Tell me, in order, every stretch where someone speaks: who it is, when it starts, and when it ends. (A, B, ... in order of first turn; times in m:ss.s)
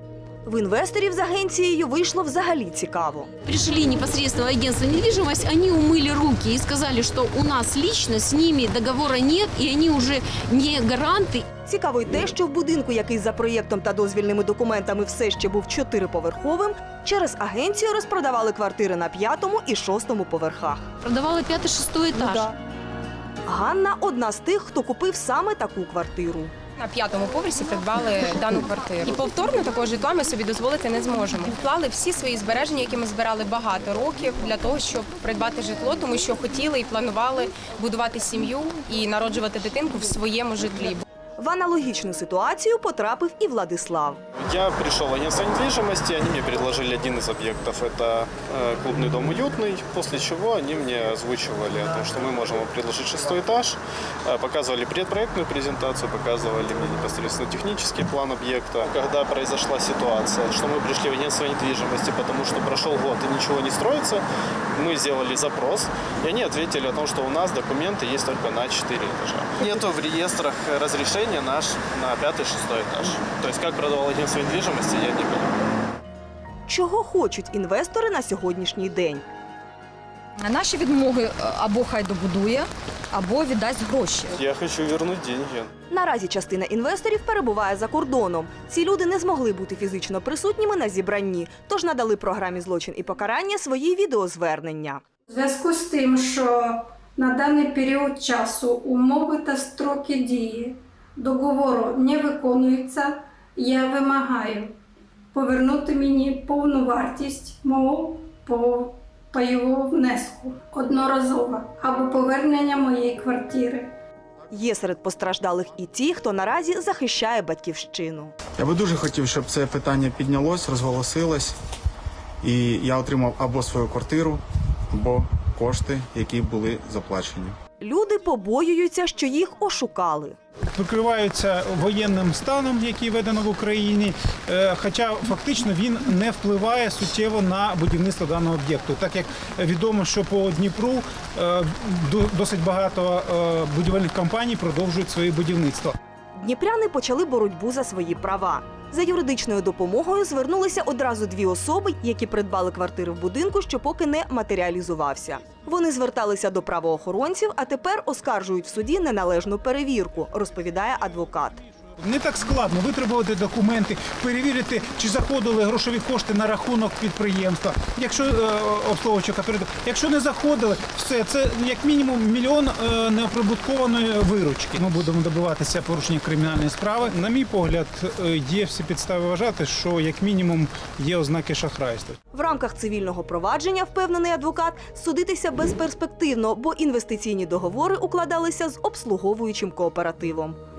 0:00.4-0:03.3 A
0:03.4-0:11.4 B
0:11.6-0:20.9 A
0:21.0-0:22.4 B
0:22.1-0:22.5 A
0:23.4-0:26.5 A
0:26.8-0:41.0 C
0:41.4-0:44.2 A
0:44.3-1:15.6 D
1:16.7-1:19.2 A
1:20.4-1:24.4 E
1:24.4-1:25.7 D
1:25.9-1:35.0 A
1:35.3-1:44.8 F
1:45.3-1:53.9 F
1:54.5-1:58.3 A
1:58.6-2:01.5 G
2:02.4-2:07.6 G
2:07.8-2:10.4 A
2:10.7-2:25.9 H
2:26.4-2:41.6 A
2:42.0-3:02.2 H
3:02.3-3:10.6 A